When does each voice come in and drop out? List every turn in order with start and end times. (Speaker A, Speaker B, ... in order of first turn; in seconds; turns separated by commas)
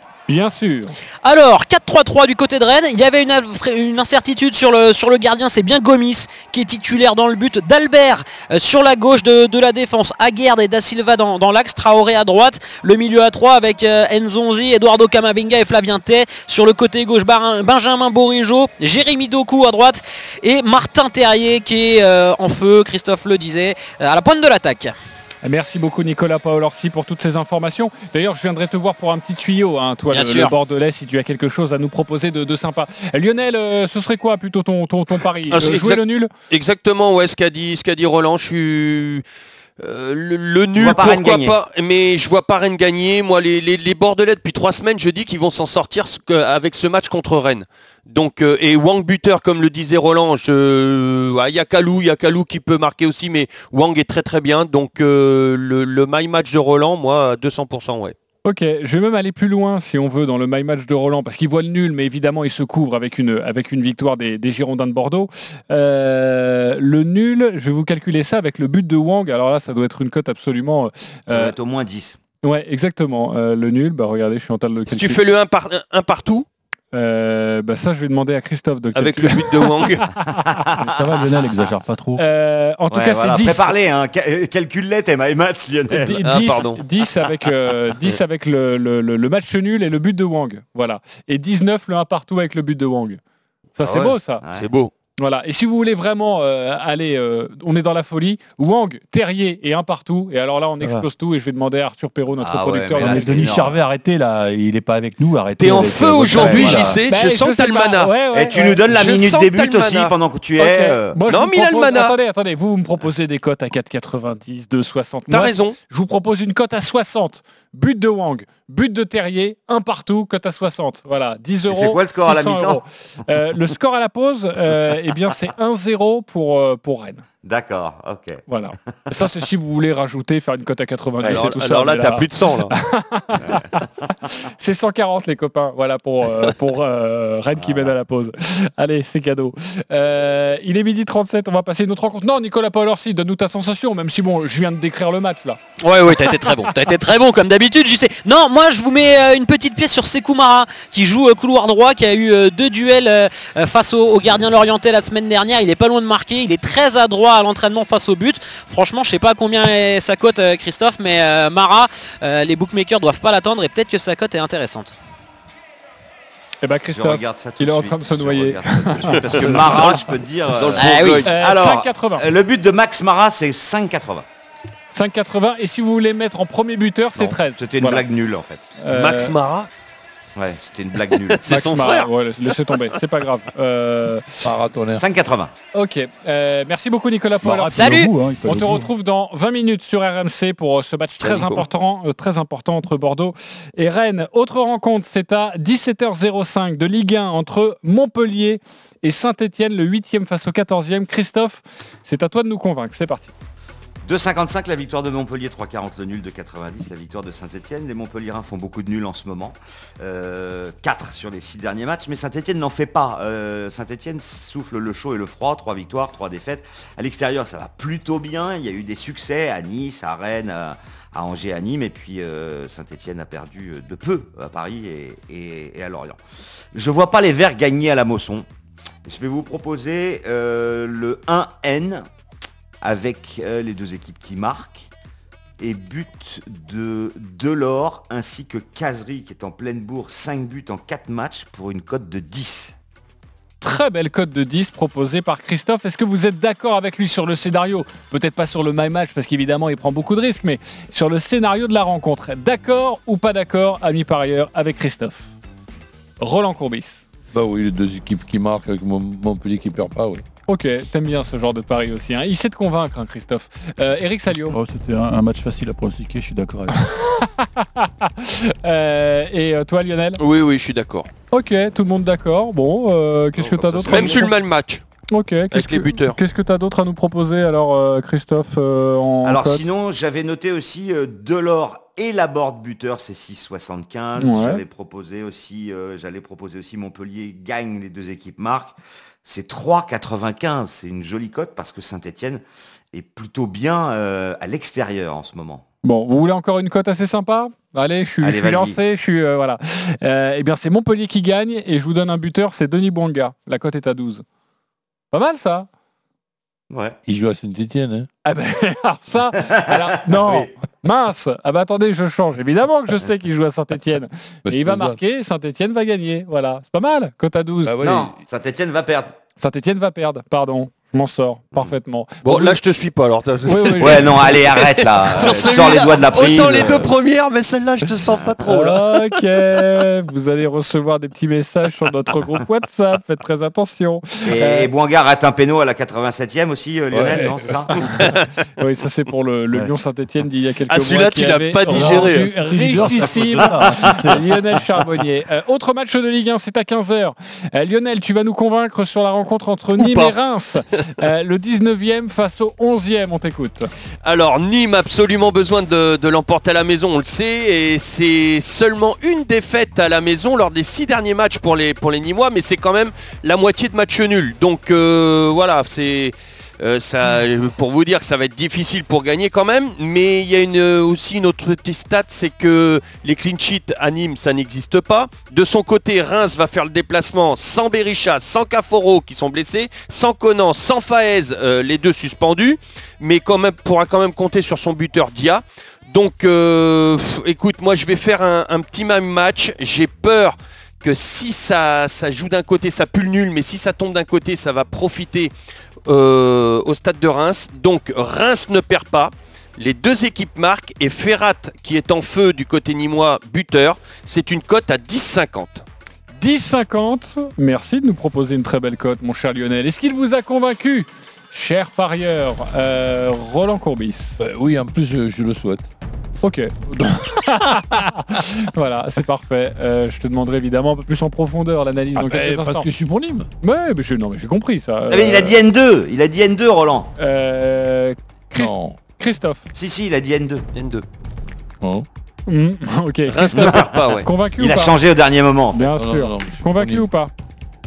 Speaker A: 0.3-0.9, Speaker B: 1.2-24.9, Speaker A: 25.4-36.3, Speaker B: 30.1-30.5, Speaker C: 35.5-39.2, Speaker C: 39.8-58.1, Speaker D: 40.7-41.6, Speaker A: 58.4-71.5, Speaker D: 71.3-72.2, Speaker A: 72.4-75.2, Speaker C: 74.9-76.5, Speaker A: 76.9-80.2, Speaker C: 79.0-80.1, Speaker D: 80.3-80.8, Speaker E: 80.8-82.2, Speaker A: 82.2-83.7, Speaker D: 82.9-86.3, Speaker A: 85.9-93.2, Speaker C: 86.2-87.3, Speaker A: 93.8-94.4, Speaker D: 93.8-94.7, Speaker C: 94.5-94.9, Speaker A: 95.2-103.5, Speaker E: 100.8-101.1, Speaker D: 102.4-103.8, Speaker E: 103.0-107.0, Speaker C: 105.6-108.1, Speaker D: 106.3-106.9, Speaker A: 107.1-108.8, Speaker D: 108.3-111.2, Speaker C: 108.9-110.2, Speaker A: 110.6-127.2, Speaker C: 111.3-112.1, Speaker C: 115.3-115.7, Speaker D: 121.7-122.8, Speaker D: 127.4-128.4, Speaker A: 128.5-133.8, Speaker C: 131.2-132.7, Speaker D: 133.4-133.9, Speaker A: 134.6-145.6, Speaker D: 137.6-137.9, Speaker B: 145.8-164.9, Speaker A: 166.6-169.9, Speaker D: 166.9-174.2, Speaker C: 169.3-171.3, Speaker B: 170.8-171.2, Speaker A: 171.2-172.3, Speaker A: 174.9-178.0, Speaker D: 177.2-178.7, Speaker A: 178.8-179.3, Speaker C: 178.9-179.7, Speaker D: 180.3-181.4, Speaker C: 181.0-182.1, Speaker A: 181.5-184.3, Speaker F: 184.4-185.0, Speaker D: 184.9-185.5, Speaker A: 185.7-203.3, Speaker E: 187.4-188.9, Speaker B: 187.7-188.1, Speaker D: 191.2-191.7, Speaker D: 204.0-226.2, Speaker D: 226.7-228.5, Speaker D: 229.1-232.1, Speaker D: 232.8-234.9, Speaker D: 235.6-242.7, Speaker A: 243.6-255.3, Speaker A: 256.2-257.1, Speaker F: 257.3-260.2, Speaker A: 260.5-264.5, Speaker E: 264.5-266.8, Speaker A: 266.8-270.2, Speaker C: 270.2-271.1, Speaker A: 271.3-274.3, Speaker F: 273.6-274.0, Speaker C: 273.9-274.8, Speaker A: 275.1-279.6, Speaker C: 275.5-276.1, Speaker D: 279.2-295.6, Speaker A: 284.2-284.6, Speaker A: 295.8-304.2, Speaker D: 298.2-298.8, Speaker A: 305.1-305.7, Speaker D: 306.7-307.0, Speaker F: 307.1-308.1, Speaker A: 308.2-317.7, Speaker D: 309.5-310.5, Speaker F: 314.5-315.0, Speaker F: 317.6-318.2, Speaker D: 317.8-319.1, Speaker A: 319.4-322.6, Speaker C: 322.2-328.8, Speaker A: 323.4-324.3, Speaker D: 323.8-326.9, Speaker A: 325.4-325.6, Speaker A: 328.4-334.7, Speaker D: 334.2-338.0, Speaker F: 336.9-337.6, Speaker A: 337.7-353.7, Speaker C: 340.7-342.4, Speaker E: 341.7-344.4, Speaker C: 349.8-350.1, Speaker C: 354.0-395.3, Speaker C: 395.9-405.6, Speaker A: 406.1-414.2, Speaker F: 414.2-415.7, Speaker A: 416.2-422.7, Speaker F: 421.9-423.3, Speaker A: 423.4-425.4, Speaker D: 424.9-426.9, Speaker A: 427.0-429.4, Speaker F: 428.3-428.8, Speaker D: 429.5-430.4, Speaker C: 430.5-430.8, Speaker F: 431.6-431.9, Speaker A: 432.3-434.8, Speaker C: 433.1-434.1, Speaker D: 433.3-435.7, Speaker A: 435.5-437.1, Speaker F: 435.8-436.9